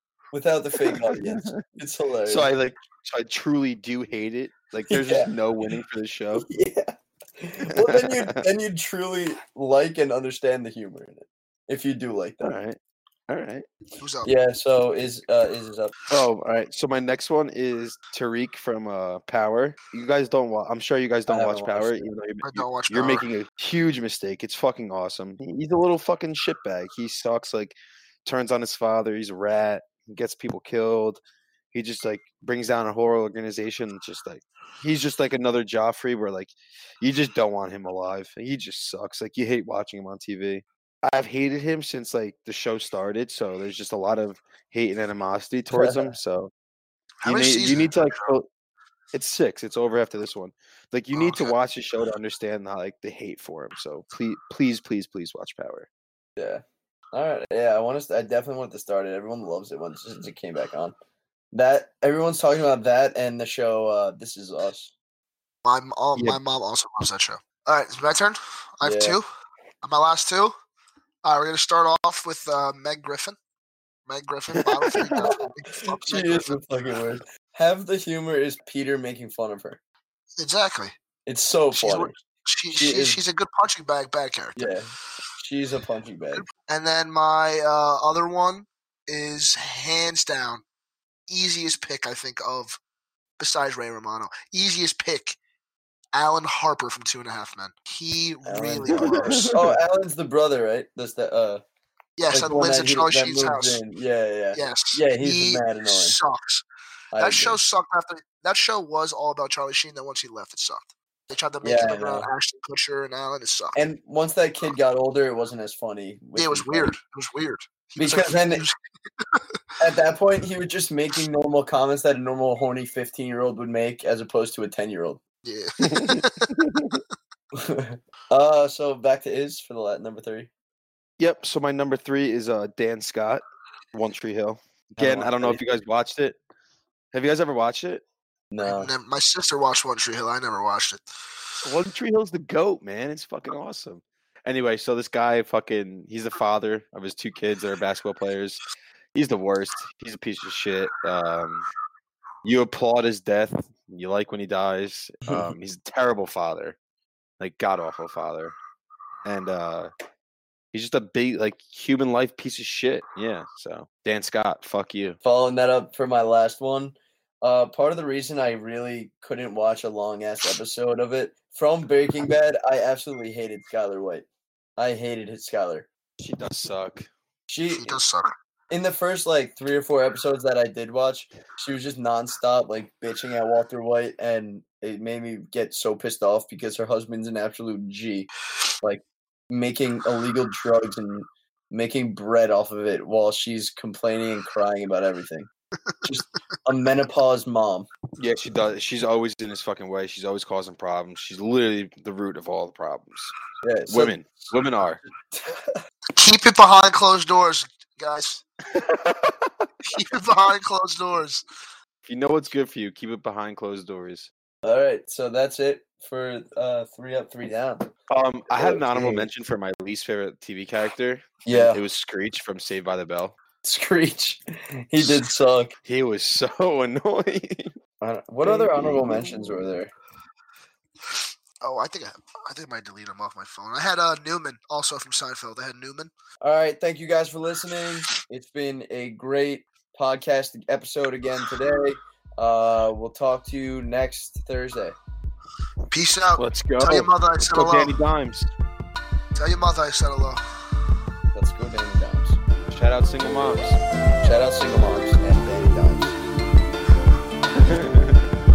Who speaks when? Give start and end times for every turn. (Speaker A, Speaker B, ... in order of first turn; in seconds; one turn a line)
Speaker A: 0.3-2.5
Speaker B: 0.7-1.6
Speaker B: 2.3-6.5
Speaker A: 4.9-5.3
Speaker A: 6.3-12.5
Speaker B: 7.7-8.4
Speaker B: 12.4-12.8
Speaker B: 13.3-13.6
Speaker C: 14.0-14.3
Speaker A: 14.2-15.9
Speaker B: 16.1-31.2
Speaker A: 21.3-22.1
Speaker C: 22.4-23.2
Speaker B: 31.7-46.5
Speaker A: 45.7-46.1
Speaker C: 47.2-48.2
Speaker B: 47.2-48.5
Speaker B: 49.1-55.9
Speaker C: 51.1-51.5
Speaker A: 56.4-61.0
Speaker A: 61.5-64.9
Speaker C: 65.6-69.2
Speaker A: 68.8-69.2
Speaker C: 69.8-70.5
Speaker C: 71.2-73.4
Speaker C: 74.1-76.6
Speaker B: 74.9-75.3
Speaker A: 75.1-79.8
Speaker C: 80.4-80.9
Speaker A: 81.3-82.1
Speaker C: 81.7-84.7
Speaker A: 82.7-83.2
Speaker A: 84.6-86.5
Speaker C: 86.3-90.6
Speaker C: 91.3-92.8
Speaker C: 93.4-95.4
Speaker C: 96.1-99.6
Speaker A: 98.5-101.6
Speaker B: 98.9-99.8
Speaker C: 102.2-103.8
Speaker A: 102.3-106.2
Speaker C: 104.5-106.6
Speaker A: 107.1-107.6
Speaker C: 107.2-113.8
Speaker A: 111.6-112.3
Speaker A: 113.8-117.0
Speaker C: 116.4-119.4
Speaker A: 118.0-118.7
Speaker A: 119.8-125.2
Speaker C: 125.5-126.6
Speaker B: 125.8-127.0
Speaker A: 127.5-130.5
Speaker B: 131.2-136.4
Speaker A: 134.9-135.6
Speaker B: 137.1-138.0
Speaker A: 138.5-138.9
Speaker C: 138.6-141.0
Speaker B: 141.6-148.6
Speaker B: 149.1-151.7
Speaker B: 152.4-156.8
Speaker A: 155.3-155.5
Speaker B: 157.4-158.6
Speaker B: 159.2-159.9
Speaker B: 160.7-165.2
Speaker A: 165.2-174.2
Speaker A: 174.8-175.9
Speaker B: 176.2-177.1
Speaker A: 177.5-178.0
Speaker C: 177.7-178.3
Speaker A: 178.7-188.3
Speaker A: 188.8-195.5
Speaker A: 196.0-197.9
Speaker B: 198.2-203.3
Speaker A: 203.6-204.2
Speaker B: 203.9-205.0
Speaker A: 205.3-205.8
Speaker C: 206.2-208.4
Speaker B: 208.7-210.0
Speaker C: 209.9-211.4
Speaker B: 212.0-214.3
Speaker A: 214.6-217.9
Speaker B: 218.1-223.4
Speaker A: 218.5-219.3
Speaker A: 221.4-221.8
Speaker A: 223.6-225.7
Speaker B: 225.8-227.7
Speaker A: 228.0-229.9
Speaker B: 228.4-229.7
Speaker C: 231.6-236.1
Speaker A: 236.4-245.0
Speaker C: 245.9-247.9
Speaker B: 246.4-248.5
Speaker C: 249.4-250.4
Speaker A: 251.3-252.4
Speaker B: 252.7-253.8
Speaker A: 254.2-256.2
Speaker B: 257.5-258.3